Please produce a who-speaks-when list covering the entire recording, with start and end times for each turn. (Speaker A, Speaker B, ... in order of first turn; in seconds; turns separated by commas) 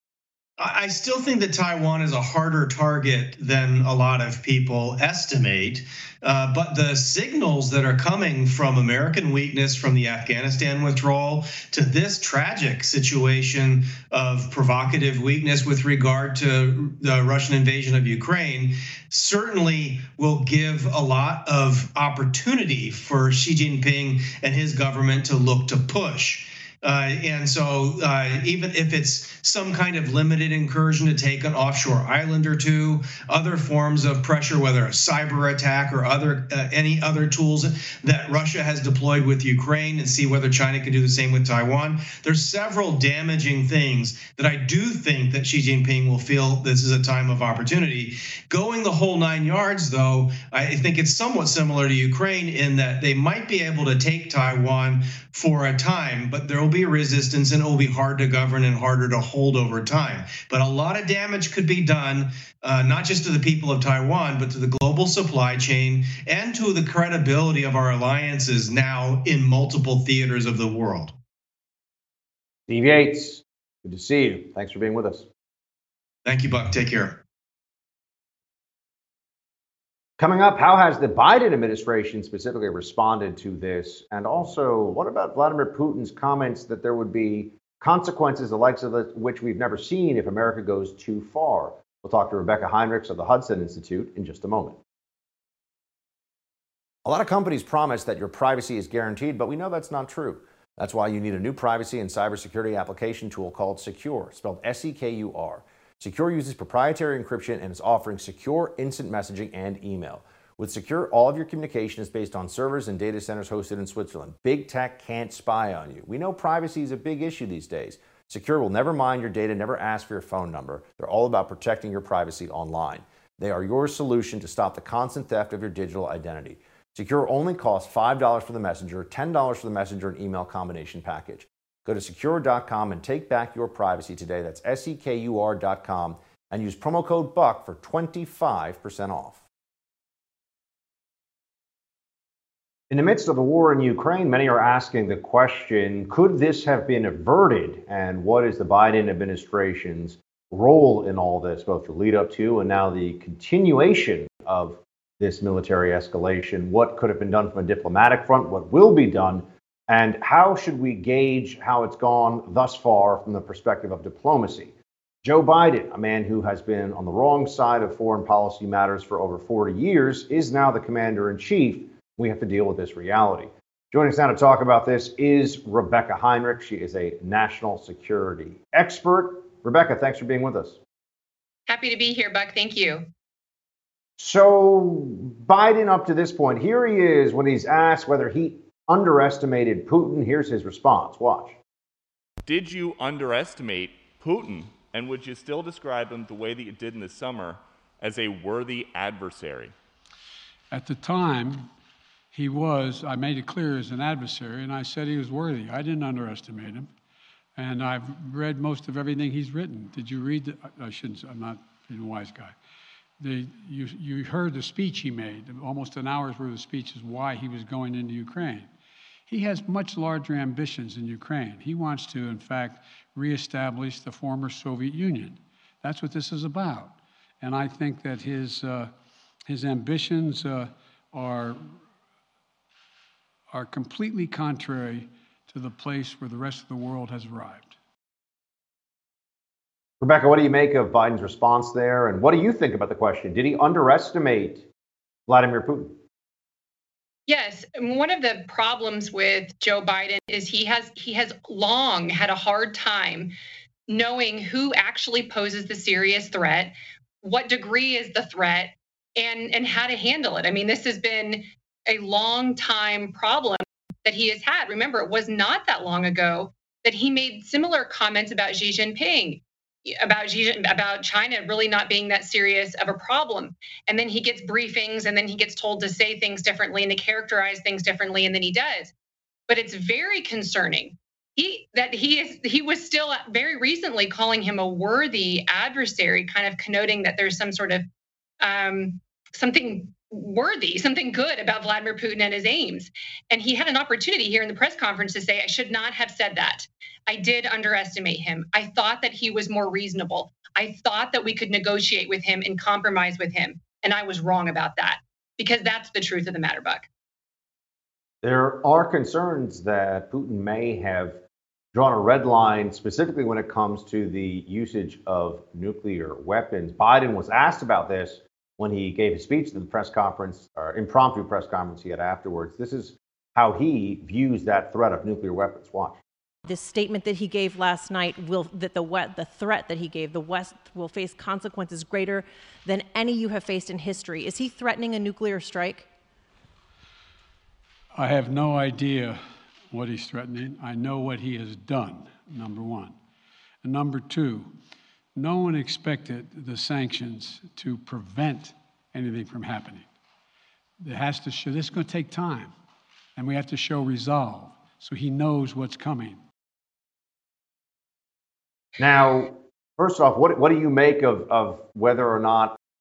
Speaker A: 0.6-71.1, Speaker B: 72.7-75.3, Speaker A: 76.2-77.2, Speaker B: 80.2-94.8, Speaker B: 97.0-139.4, Speaker B: 142.9-180.8, Speaker C: 181.7-183.1, Speaker B: 184.2-191.6, Speaker D: 192.4-199.7, Speaker E: 200.7-201.7, Speaker E: 202.3-206.9, Speaker E: 207.6-212.5, Speaker E: 213.2-218.7, Speaker E: 219.3-228.9, Speaker E: 229.4-231.8, Speaker E: 233.5-237.7, Speaker B: 240.0-244.7, Speaker B: 245.3-246.0, Speaker C: 247.3-253.3, Speaker C: 253.9-278.9, Speaker C: 279.5-287.8, Speaker C: 288.4-306.9, Speaker B: 308.2-311.2, Speaker B: 311.7-326.0, Speaker F: 326.4-335.9, Speaker E: 337.9-342.9, Speaker E: 343.6-344.5, Speaker E: 345.1-349.9, Speaker E: 350.8-352.5, Speaker E: 353.2-356.2, Speaker B: 358.8-362.6